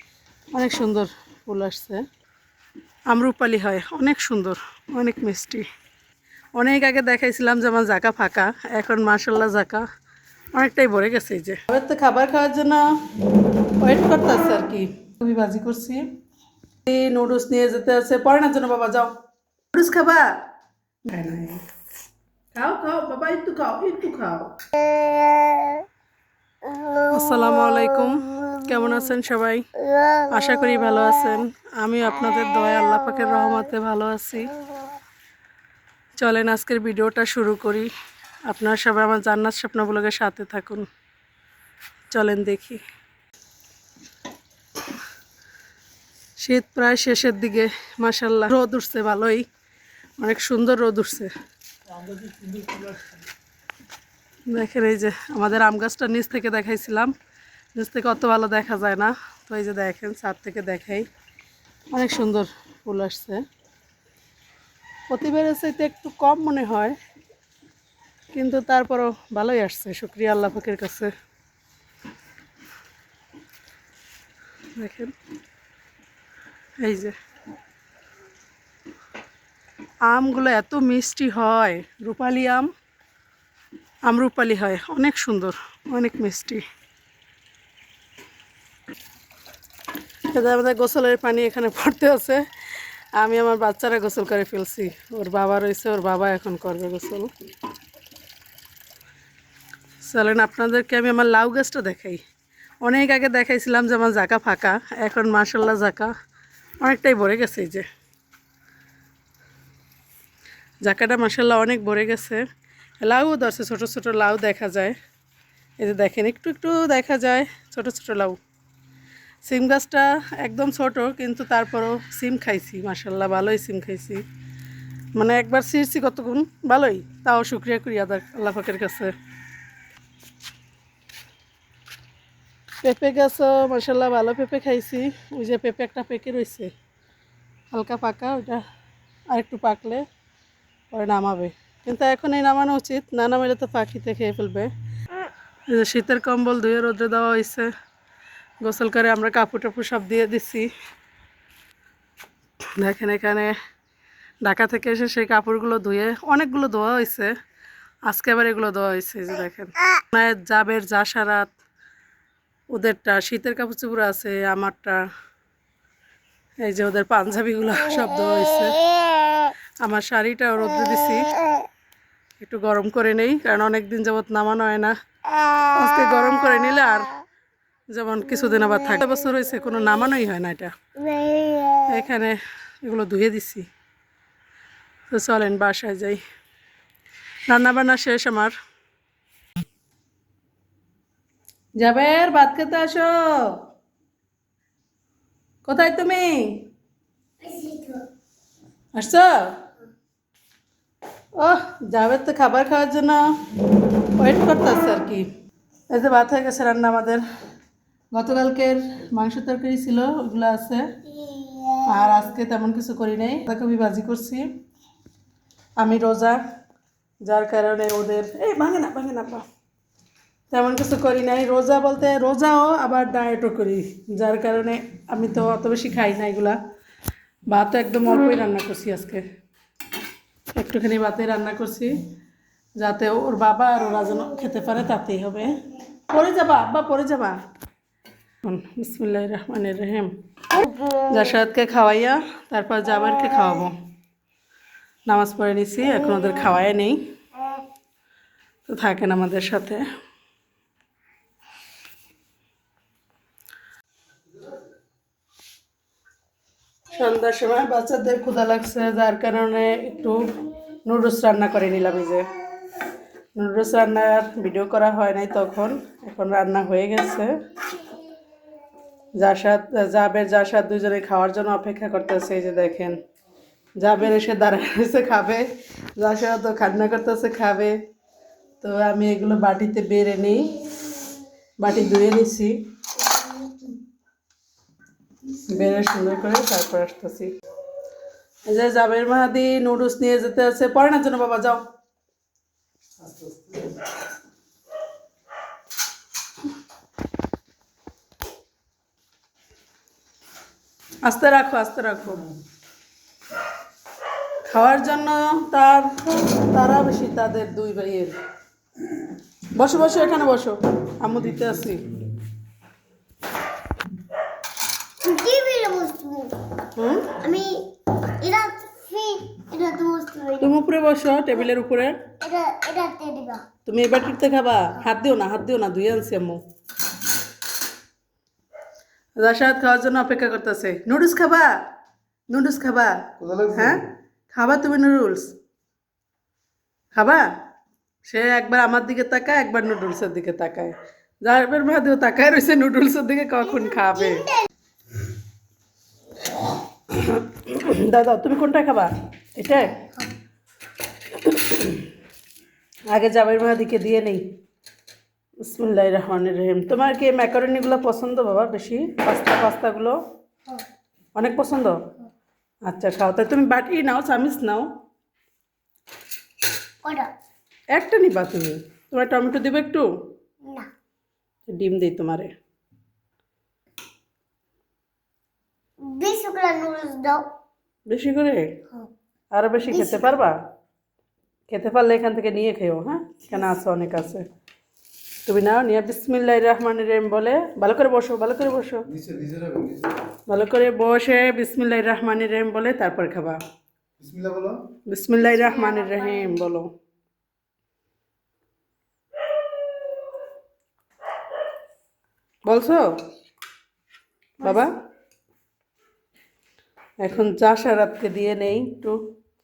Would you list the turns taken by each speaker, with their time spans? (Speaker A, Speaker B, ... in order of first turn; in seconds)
Speaker A: 0.5-2.0, 3.1-5.7, 6.5-9.8, 10.5-12.8, 13.8-16.1, 16.9-19.1, 19.7-20.4, 21.0-21.6, 22.5-24.6, 27.0-29.7, 30.2-34.5, 36.2-37.9, 38.5-40.9, 42.1-42.8, 46.4-49.4, 50.2-51.3, 52.3-52.9, 54.5-57.1, 57.7-61.1, 61.9-63.4, 65.1-66.9, 68.3-71.1, 74.7-75.1, 76.8-77.1, 80.1-82.7, 84.0-86.6, 90.3-97.3, 100.0-102.2, 102.8-106.1, 106.8-107.9, 110.8-112.5, 113.0-114.9, 115.8-118.4, 119.4-124.2, 125.1-129.1, 132.8-136.7, 137.7-138.6, 139.3-140.0, 140.9-144.7, 145.7-147.7, 148.6-150.7, 152.8-153.5, 154.4-157.3, 158.1-161.5, 162.7-165.0, 166.6-168.9, 169.8-171.4, 172.4-174.9, 175.7-177.2, 177.9-180.7, 181.9-183.7, 185.1-186.2, 187.5-188.5, 191.8-193.6, 195.6-196.6, 198.9-199.5, 201.3-203.3, 204.2-205.2, 205.9-207.2, 208.1-210.9, 211.8-214.5, 215.8-216.4, 217.2-219.4, 220.5-226.6, 227.5-229.2, 230.5-232.0, 232.8-237.4, 238.4-240.1, 241.1-243.8, 245.1-247.0, 248.7-249.8, 256.9-262.3, 263.4-267.3, 269.1-273.0, 273.8-277.8, 278.6-280.6, 281.6-282.6, 285.3-287.3, 288.4-291.6, 301.0-302.3, 304.5-308.1, 309.5-312.0, 316.7-317.2, 320.4-322.0, 323.6-326.4, 329.2-331.6, 332.3-335.3, 336.9-337.3, 338.1-344.3, 346.9-349.8, 351.1-351.9, 352.9-354.2, 355.4-360.0, 361.1-361.8, 362.6-364.7, 367.7-369.9, 371.5-372.3, 377.9-378.6, 379.3-380.4, 381.5-384.2, 385.2-388.9, 390.3-393.4, 394.9-396.7, 402.4-402.9, 404.4-404.7, 407.0-409.0
Speaker B: 24.9-25.8, 26.7-27.1, 181.0-182.0, 197.4-198.0, 211.1-212.2, 240.6-241.0, 315.0-316.5, 317.0-320.5, 322.2-323.4, 343.6-344.4, 349.8-350.1, 366.8-367.1, 375.8-377.2, 379.7-380.1, 395.2-396.4, 404.4-404.7
Speaker C: 52.4-52.7, 293.0-293.7, 333.2-333.8, 388.9-389.9, 394.0-394.6